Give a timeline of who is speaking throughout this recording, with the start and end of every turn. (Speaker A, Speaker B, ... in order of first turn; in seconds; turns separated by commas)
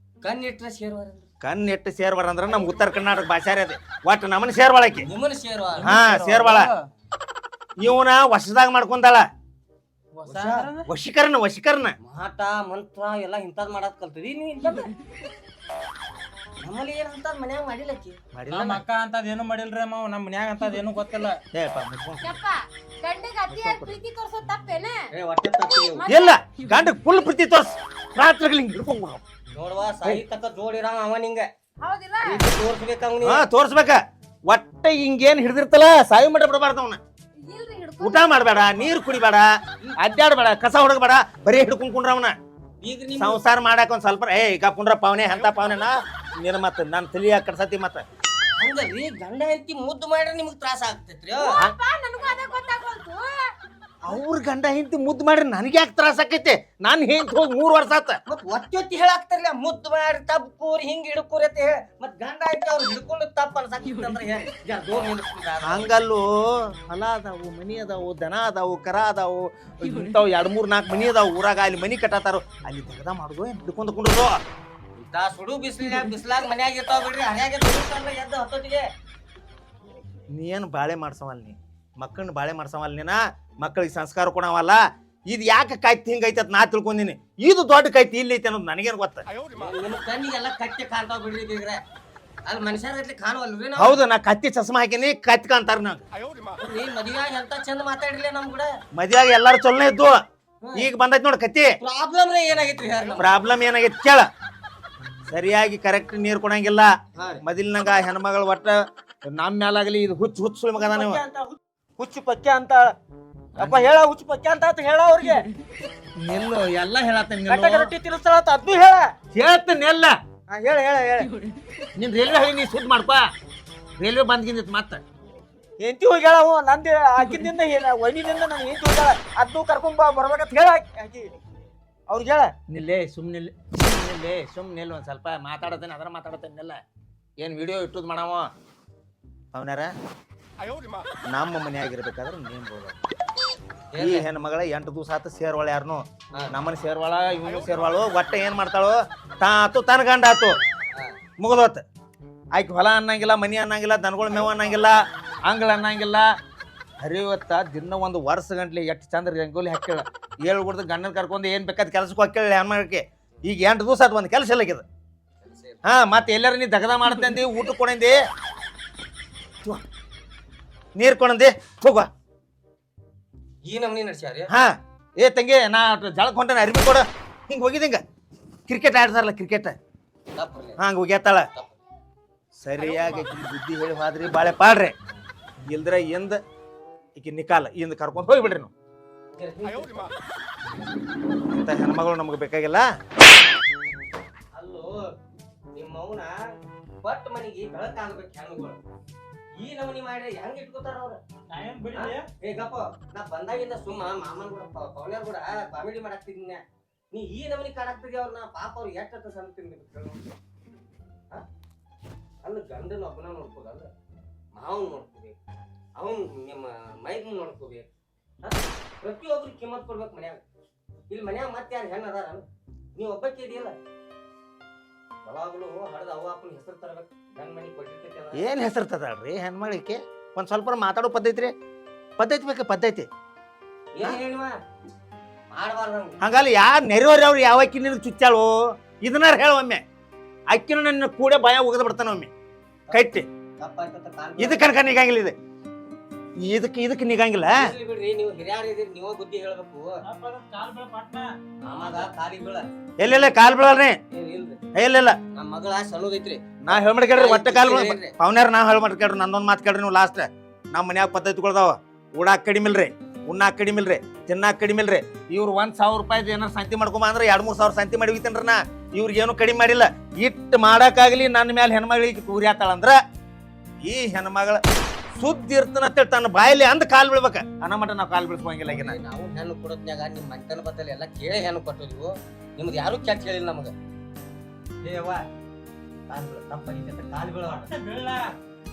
Speaker A: 0.2-1.3, Speaker B: 1.4-5.1, Speaker A: 5.0-6.0, Speaker C: 5.8-6.7, Speaker B: 5.8-6.7, Speaker B: 7.8-9.3, Speaker C: 10.1-10.9, Speaker B: 10.3-11.9, Speaker A: 12.0-14.9, Speaker A: 16.6-18.2, Speaker B: 18.3-18.8, Speaker C: 18.5-21.4, Speaker B: 21.5-22.4, Speaker D: 22.2-25.1, Speaker B: 23.5-23.9, Speaker A: 25.1-26.1, Speaker D: 25.9-26.4, Speaker B: 26.1-29.2, Speaker A: 29.5-31.5, Speaker D: 31.8-32.4, Speaker A: 32.2-33.4, Speaker B: 33.2-37.0, Speaker D: 37.4-38.9, Speaker B: 38.0-42.4, Speaker A: 42.8-43.4, Speaker B: 43.2-48.0, Speaker A: 48.6-51.5, Speaker D: 51.4-53.5, Speaker B: 54.0-58.2, Speaker A: 58.3-65.9, Speaker B: 65.6-74.4, Speaker A: 75.0-78.9, Speaker B: 80.3-89.3, Speaker A: 89.5-91.8, Speaker A: 92.5-94.0, Speaker B: 93.8-96.0, Speaker A: 96.6-98.8, Speaker B: 98.9-100.2, Speaker A: 100.6-100.9, Speaker B: 100.7-101.8, Speaker A: 101.8-103.3, Speaker B: 103.2-104.3, Speaker B: 105.3-111.2, Speaker A: 107.1-107.4, Speaker E: 110.7-112.9, Speaker E: 113.6-115.5, Speaker B: 116.2-117.9, Speaker E: 117.5-119.1, Speaker B: 119.3-120.2, Speaker E: 120.5-121.3, Speaker B: 122.0-123.3, Speaker B: 124.0-125.0, Speaker E: 125.8-131.3, Speaker E: 132.1-132.5, Speaker B: 132.7-136.8, Speaker B: 137.4-138.5, Speaker B: 139.5-139.9, Speaker B: 141.3-143.0, Speaker A: 143.9-144.2, Speaker B: 144.0-150.6, Speaker B: 151.4-151.8, Speaker B: 152.5-156.3, Speaker A: 154.4-154.7, Speaker B: 157.0-164.8, Speaker A: 165.4-165.8, Speaker B: 165.8-168.2, Speaker B: 170.9-172.1, Speaker A: 173.6-174.5, Speaker B: 174.5-178.0, Speaker B: 178.7-179.8, Speaker A: 180.3-180.8, Speaker B: 180.8-181.5, Speaker B: 182.6-184.9, Speaker B: 185.7-186.4, Speaker B: 187.2-188.7, Speaker A: 189.3-190.1, Speaker B: 191.5-192.9, Speaker A: 194.5-195.1, Speaker A: 195.7-196.3, Speaker A: 197.0-198.8, Speaker A: 199.6-201.2, Speaker C: 201.5-202.3, Speaker A: 201.9-210.2, Speaker A: 212.4-213.9, Speaker A: 214.5-215.3, Speaker A: 216.0-217.9, Speaker A: 218.4-220.4, Speaker A: 221.1-223.8, Speaker A: 225.2-228.5, Speaker B: 228.3-231.5, Speaker B: 232.2-233.1, Speaker A: 233.9-234.5, Speaker A: 235.5-236.2, Speaker B: 236.2-239.8, Speaker B: 240.5-242.3, Speaker B: 242.9-243.2, Speaker A: 243.6-244.7, Speaker B: 244.4-245.3, Speaker B: 246.4-247.7, Speaker A: 247.5-250.0, Speaker C: 250.0-251.3, Speaker A: 251.6-252.7, Speaker B: 253.0-254.0, Speaker A: 254.1-254.6, Speaker B: 254.7-255.2, Speaker A: 255.3-258.1, Speaker B: 256.6-273.0, Speaker B: 273.8-274.6, Speaker B: 275.2-279.0, Speaker A: 278.6-283.7, Speaker A: 284.8-285.2, Speaker A: 286.1-287.7, Speaker C: 287.5-288.3